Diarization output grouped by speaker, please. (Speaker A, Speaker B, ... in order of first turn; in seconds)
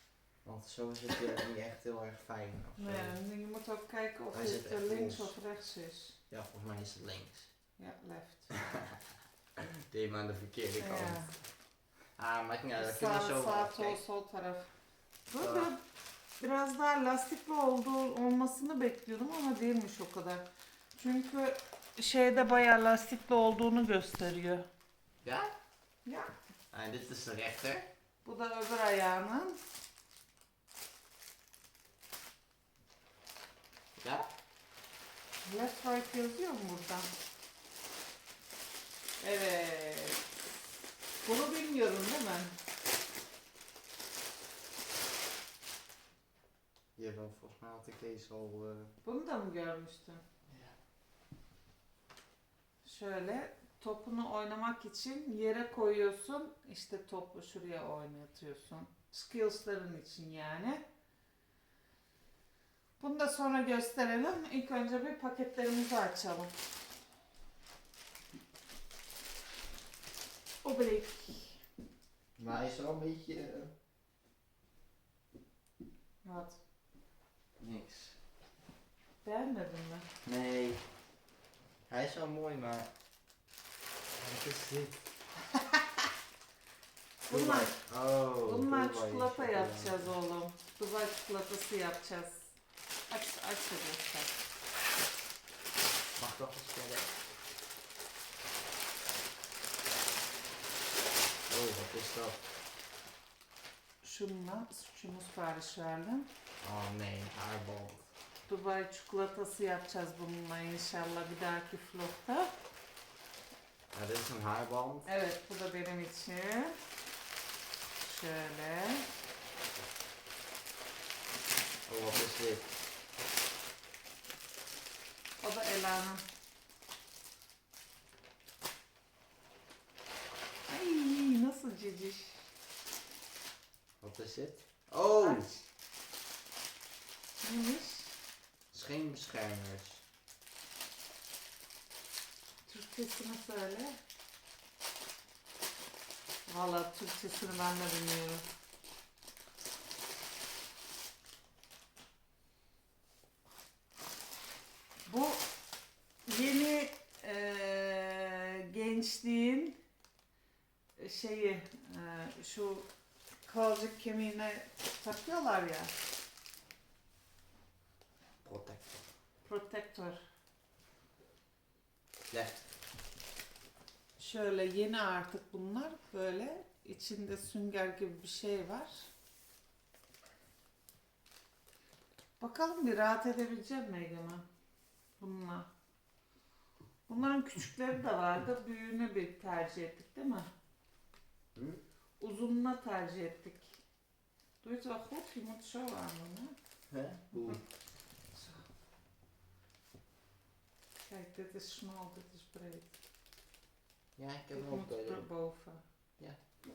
Speaker A: 0.4-3.1, 4.3-5.3, 6.3-7.5, 8.7-9.0, 9.6-11.4, 12.2-14.0, 15.4-15.7, 25.2-25.5, 26.7-27.9, 34.0-34.3, 47.0-48.9, 50.5-50.8, 72.3-73.7, 77.6-78.2, 80.2-80.9, 81.9-82.9, 84.2-85.0, 87.3-90.1, 96.2-97.1, 101.5-102.4, 106.6-108.1, 113.9-115.1, 121.9-122.7, 134.0-135.5, 138.7-140.0, 168.4-169.0, 172.3-172.7, 191.5-191.8, 196.9-197.6, 204.2-205.2
Speaker B: 2.8-6.2, 7.8-8.6, 10.8-11.3, 12.8-14.7, 15.3-15.8, 16.4-24.6, 26.0-26.3, 28.2-29.6, 35.4-37.1, 39.2-40.3, 41.2-42.5, 49.0-50.2, 52.8-60.8, 63.0-66.5, 70.6-71.6, 76.2-76.6, 79.2-80.1, 87.2-87.8, 88.4-92.5, 93.1-94.3, 104.0-106.3, 108.5-112.5, 115.0-116.8, 118.0-119.0, 125.4-126.2, 130.7-132.5, 135.2-135.6, 137.4-138.1, 142.7-144.0, 146.5-148.4, 155.1-155.4, 156.2-159.8, 161.0-162.9, 163.4-165.9, 169.4-170.2, 174.2-179.1, 182.4-184.4, 185.2-185.7, 187.1-190.5, 192.2-193.8, 194.6-196.5, 198.3-198.7, 201.0-202.9, 204.5-205.8